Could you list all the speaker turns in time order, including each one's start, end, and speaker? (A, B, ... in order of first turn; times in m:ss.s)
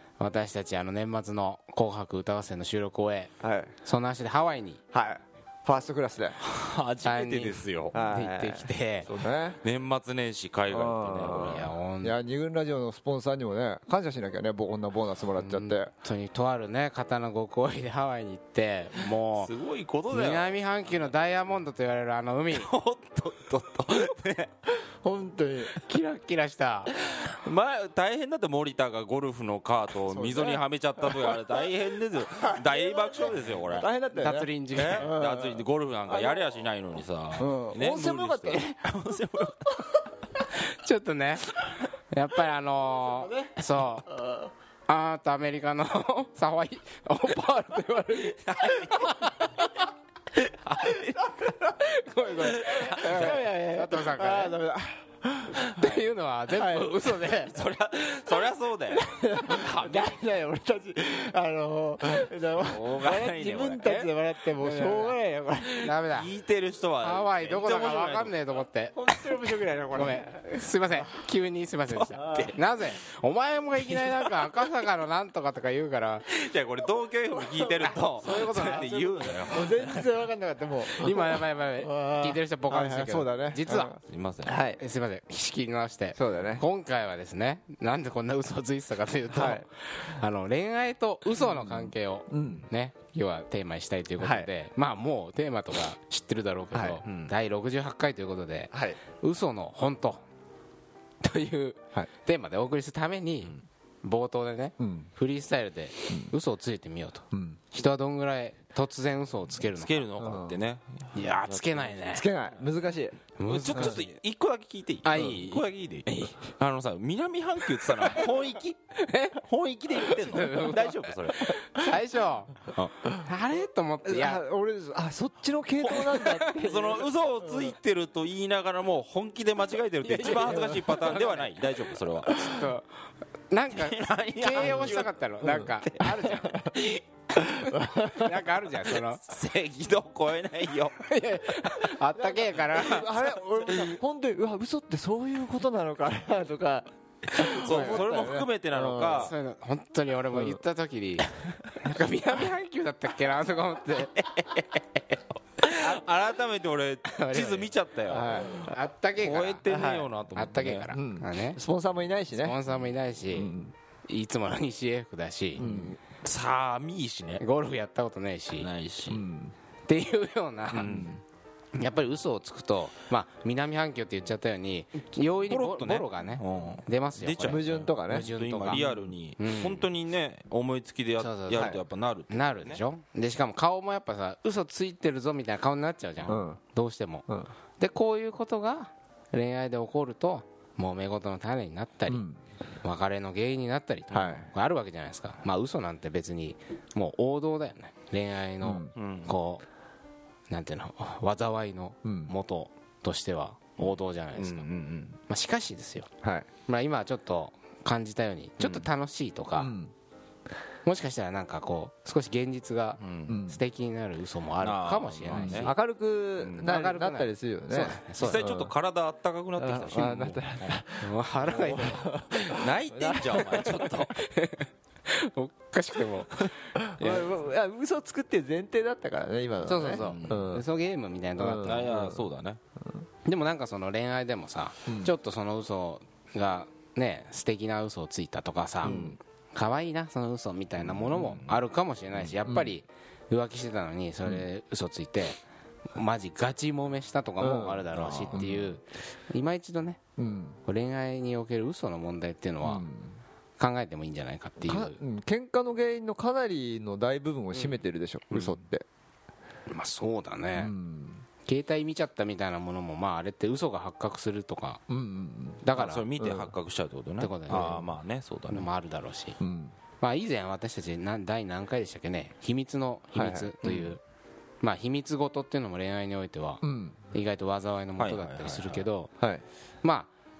0:00.2-0:03.3 A
0:03.4-0:03.7 B
0:03.8-0:04.8 A
0:04.9-0:06.4 B
0:06.4-0:08.0 C
0:07.0-0:09.1 A
0:07.9-0:09.6 B
0:09.6-0:11.7 C
0:10.7-0:15.9 B
0:11.2-0:12.2 A
0:15.4-0:19.5 A
0:19.4-0:20.6 C
0:20.1-0:22.7 A
0:22.5-0:24.5 C
0:25.0-0:25.8 B
0:25.8-0:26.9 A
0:26.9-0:33.9 C
0:30.0-0:30.6 B
0:33.6-0:36.4 B
0:34.1-0:35.1 A
0:34.7-0:40.0 C
0:37.4-0:38.7 B
0:40.5-0:44.1 A
0:44.9-0:49.9 A
0:50.6-0:54.6 A
0:52.5-0:53.4 C
0:52.8-0:55.8 B
0:55.5-0:57.6 A
0:56.5-0:57.0 B
0:57.3-1:00.1 C
0:58.9-1:05.9 B
1:02.6-1:04.1 C
1:03.8-1:05.2 A
1:05.8-1:06.3 A
1:05.9-1:08.6 C
1:07.0-1:09.3 A
1:09.0-1:10.2 B
1:09.9-1:16.2 A
1:11.9-1:12.5 C
1:12.2-1:12.5 B
1:16.3-1:20.1 C
1:17.6-1:18.8 B
1:17.8-1:19.5 A
1:19.5-1:24.8 B
1:20.9-1:24.0 A
1:24.0-1:24.6 C
1:24.8-1:40.2 A
1:26.2-1:26.6 B
1:29.3-1:29.6 B
1:31.3-1:32.7 B
1:34.2-1:34.5 B
1:36.7-1:37.0 B
1:37.0-1:37.3 C
1:38.7-1:39.0 B
1:41.2-1:50.0 A
1:44.8-1:45.1 B
1:47.3-1:47.6 B
1:49.7-1:52.2 C
1:50.2-1:50.6 B
1:51.1-1:52.3 A
1:52.0-1:53.2 B
1:53.4-1:54.1 A
1:53.4-2:01.6 C
1:53.7-1:54.0 B
1:55.0-1:56.4 A
1:57.8-1:58.3 A
1:59.0-1:59.4 A
2:00.0-2:04.4 A
2:04.0-2:07.7 B
2:05.8-2:12.4 C
2:10.0-2:11.5 A
2:12.2-2:12.9 A
2:13.5-2:19.2 A
2:13.7-2:15.2 C
2:14.6-2:16.7 B
2:17.4-2:18.5 B
2:19.2-2:21.0 C
2:21.0-2:23.4 A
2:22.2-2:29.3 B
2:27.4-2:29.3 C
2:27.6-2:28.2 A
2:29.0-2:34.8 A
2:30.3-2:30.6 B
2:35.6-2:38.6 C
2:37.1-2:37.7 A
2:38.1-2:38.7 B
2:38.3-2:41.6 A
2:39.2-2:40.9 C
2:39.7-2:40.1 B
2:40.9-2:42.6 B
2:42.3-2:43.5 A
2:43.3-2:43.7 B
2:44.1-2:45.6 A
2:45.6-2:46.0 B
2:45.6-2:47.4 C
2:47.4-2:48.7 A
2:48.6-2:49.2 C
2:49.1-2:49.5 B
2:49.9-2:51.1 A
2:50.7-2:51.2 C
2:51.7-2:59.9 A
2:55.5-3:02.8 C
2:57.4-2:58.8 B
3:01.2-3:07.3 A
3:01.5-3:01.8 B
3:06.2-3:06.6 B
3:07.8-3:12.2 A
3:12.1-3:12.4 B
3:12.8-3:19.6 A
3:14.1-3:14.5 B
3:18.6-3:18.9 B
3:19.0-3:19.3 C
3:20.5-3:24.7 A
3:22.0-3:22.3 B
3:23.8-3:25.2 C
3:25.3-3:26.1 A
3:26.2-3:26.5 B
3:26.6-3:29.7 A
3:28.6-3:28.8 C
3:29.6-3:29.9 B
3:30.8-3:35.7 A
3:33.0-3:33.4 C
3:33.3-3:33.6 B
3:34.6-3:35.7 C
3:35.3-3:38.7 B
3:36.4-3:36.8 C
3:36.6-3:38.4 A
3:38.2-3:40.8 C
3:39.6-3:43.9 B
3:41.0-3:42.1 A
3:42.4-3:44.2 C
3:44.1-3:47.3 A
3:46.7-3:50.6 B
3:49.6-3:51.9 A
3:49.9-3:50.5 C
3:51.4-3:52.2 B
3:51.6-3:52.6 C
3:53.2-4:05.4 A
3:54.9-3:55.1 B
3:58.8-3:59.2 B
4:00.8-4:01.6 C
4:02.4-4:02.8 B
4:05.9-4:10.0 A
4:07.4-4:08.7 B
4:10.2-4:10.6 B
4:10.6-4:12.8 A
4:12.6-4:13.2 B
4:13.6-4:15.0 A
4:14.7-4:18.8 B
4:19.7-4:20.7 A
4:20.5-4:21.2 B
4:21.4-4:24.8 A
4:24.9-4:25.6 B
4:25.6-4:26.1 A
4:25.8-4:28.7 C
4:26.2-4:26.5 B
4:27.2-4:27.8 A
4:27.5-4:27.9 B
4:28.5-4:29.4 A
4:29.4-4:29.7 B
4:30.0-4:34.0 A
4:33.1-4:33.5 B
4:33.6-4:34.0 C
4:34.6-4:39.1 A
4:36.6-4:37.0 B
4:38.0-4:38.8 C
4:39.2-4:39.4 B
4:39.8-4:40.1 A